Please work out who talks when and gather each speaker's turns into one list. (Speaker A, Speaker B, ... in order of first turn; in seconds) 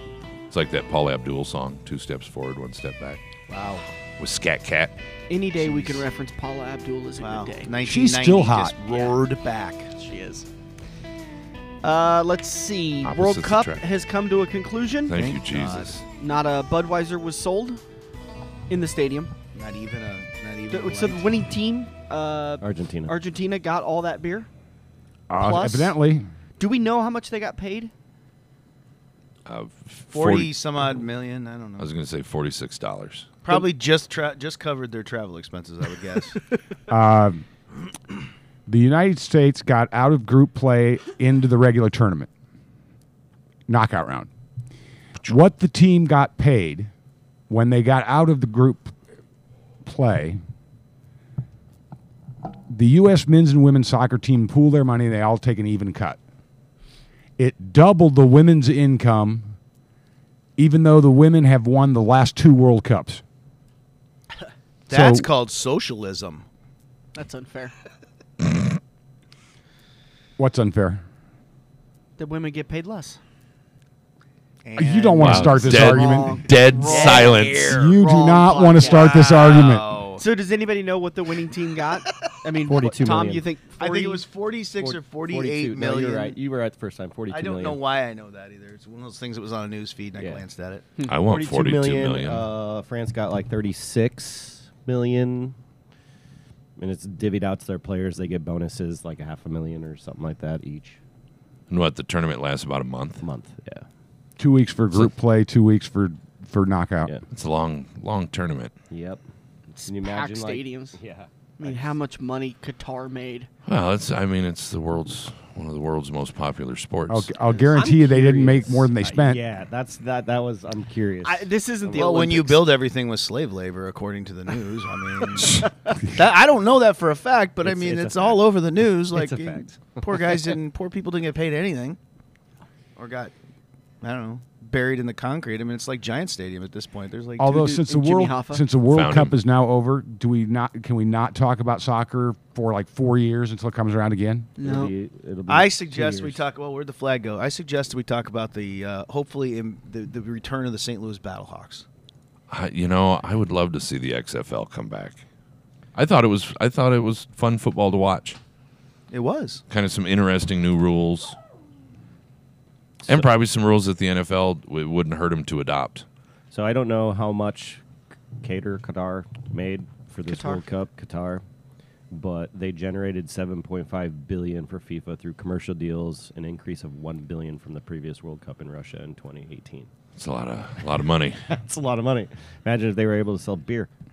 Speaker A: 0.5-3.2, 4.2-4.9, 13.0-13.8, 15.1-16.0, 29.4-30.5, 31.8-33.3, 75.2-78.0, 91.1-92.5, 101.7-103.2, 107.3-108.7, 113.7-117.3, 138.9-139.3, 152.5-155.2, 155.9-158.4, 159.7-161.3, 163.1-166.1, 180.2-181.4
Speaker B: 3.5-3.8, 5.6-6.0, 7.2-10.0, 15.1-16.0, 19.5-21.2, 30.1-31.9, 33.4-36.4, 64.9-66.5, 74.6-75.8, 76.9-77.7, 78.8-80.2, 83.8-86.4, 87.3-90.8, 121.9-132.0, 132.9-133.3, 134.0-137.6, 145.5-151.8, 159.1-159.6
Speaker C: 5.3-7.7, 10.0-10.4, 11.8-15.2, 16.2-17.8, 18.7-19.3, 20.7-24.5, 25.4-25.9, 26.6-27.9, 67.1-67.7, 72.2-73.2, 75.7-79.2, 80.2-84.2, 109.8-111.0, 111.6-113.5, 121.2-122.6, 137.5-138.6, 144.6-144.9, 170.2-170.6
Speaker D: 7.8-8.8, 25.3-26.3, 36.9-37.4, 38.7-42.3, 43.7-44.3, 45.2-46.9, 47.5-48.9, 49.8-50.4, 52.7-56.2, 57.4-59.5, 60.6-63.2, 64.9-65.3, 70.4-71.0, 74.8-76.4, 77.7-79.9, 104.4-107.1, 117.1-119.4, 137.4-144.5
Speaker E: 22.6-23.1, 82.7-83.5, 84.8-87.8, 90.2-90.4, 91.2-95.6, 96.8-101.0, 103.2-103.8, 108.9-109.2, 109.8-111.9, 117.5-122.4, 127.6-128.4, 129.1-130.3, 144.6-146.4, 163.0-163.3, 166.5-167.8, 168.4-171.4, 172.1-179.9, 181.4-183.9